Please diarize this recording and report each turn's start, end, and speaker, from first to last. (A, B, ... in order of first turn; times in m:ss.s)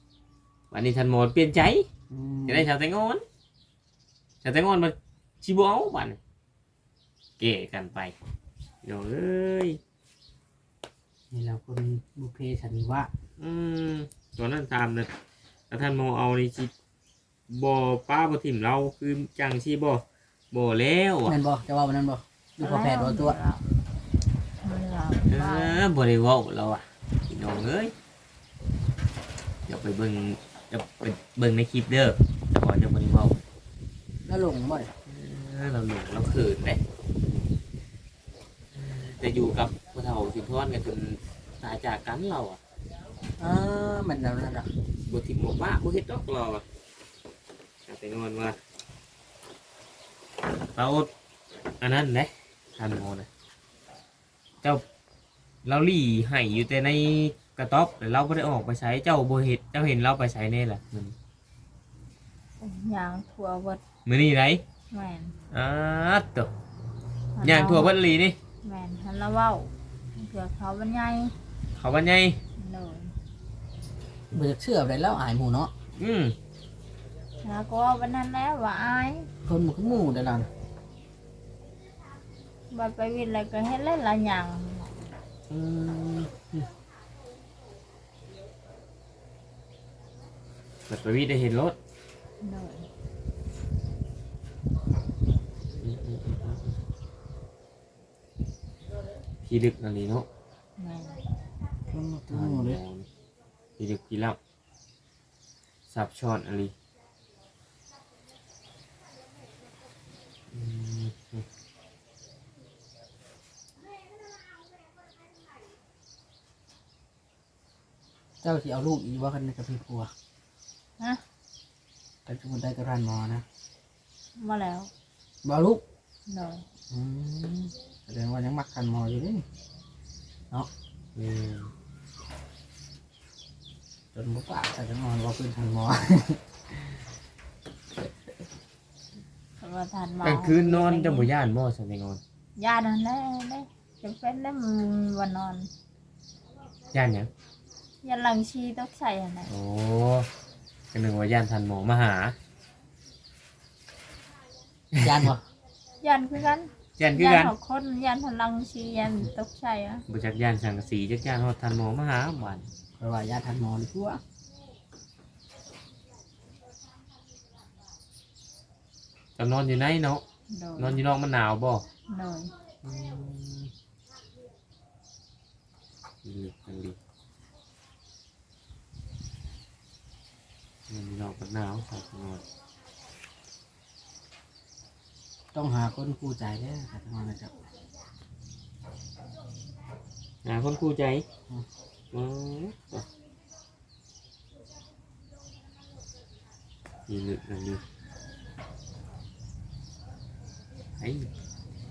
0:00.7-0:01.9 A
0:02.1-0:02.7 B
0:02.5-0:03.2 A
0:04.4-0:06.2 A
0:07.4-0:08.1 A
0:08.8-0:09.8 A
0:11.3-0:13.1 B
0:13.4-0:15.1 A
0:15.7-0:16.7 A
0:17.5-0:21.4 A
0:21.3-0:23.4 B
0:22.6-0:23.6 C
0:24.6-0:25.8 C
0:25.3-0:27.9 A
0:29.7-0:33.4 A
0:34.3-0:34.9 B
0:35.1-0:36.8 A
0:38.8-0:42.6 A
0:43.4-0:44.7 B
0:45.1-0:46.6 A
0:47.9-0:48.6 A
0:50.8-0:51.1 A
0:51.8-0:53.3 A
0:55.6-1:01.2 A
1:02.6-1:03.8 C
1:04.1-1:04.6 A
1:04.9-1:05.4 C
1:05.5-1:06.5 A
1:07.4-1:08.0 C
1:07.4-1:08.4 A
1:08.6-1:11.3 C
1:11.8-1:12.4 A
1:12.6-1:13.1 C
1:14.3-1:15.7 B
1:16.0-1:16.4 A
1:17.4-1:19.3 C
1:19.4-1:20.5 B
1:22.7-1:25.0 C
1:25.5-1:26.7 A
1:30.9-1:31.8 A
1:32.4-1:32.9 C
1:35.8-1:36.8 A
1:39.4-1:40.3 A
1:40.8-1:41.2 C
1:41.9-1:42.8 B
1:42.3-1:43.1 A
1:43.8-1:44.4 A
1:45.9-1:46.7 A
1:50.5-1:51.5 A
1:58.4-2:00.1 B
2:02.3-2:03.4 B
2:04.4-2:04.9 C
2:05.4-2:05.8 B
2:06.3-2:06.6 C
2:06.9-2:09.4 B
2:11.2-2:11.7 A
2:14.1-2:16.4 B
2:19.6-2:21.3 C
2:20.2-2:22.2 A
2:22.6-2:25.7 C
2:26.9-2:27.3 A
2:28.0-2:29.5 C
2:29.5-2:30.3 A
2:30.9-2:32.4 A
2:34.9-2:35.3 A
2:35.0-2:35.4 B
2:36.0-2:40.0 C
2:37.0-2:37.5 A
2:40.1-2:42.7 A
2:43.0-2:44.2 B
2:49.4-2:50.2 A
2:50.5-2:51.0 C
2:50.8-2:51.9 A
2:52.1-2:52.5 C
2:52.8-2:53.7 A
2:56.2-2:57.0 A
3:00.9-3:02.4 A
3:05.5-3:07.6 B
3:10.4-3:11.2 A
3:12.1-3:13.1 A
3:17.1-3:17.8 A
3:21.0-3:21.3 A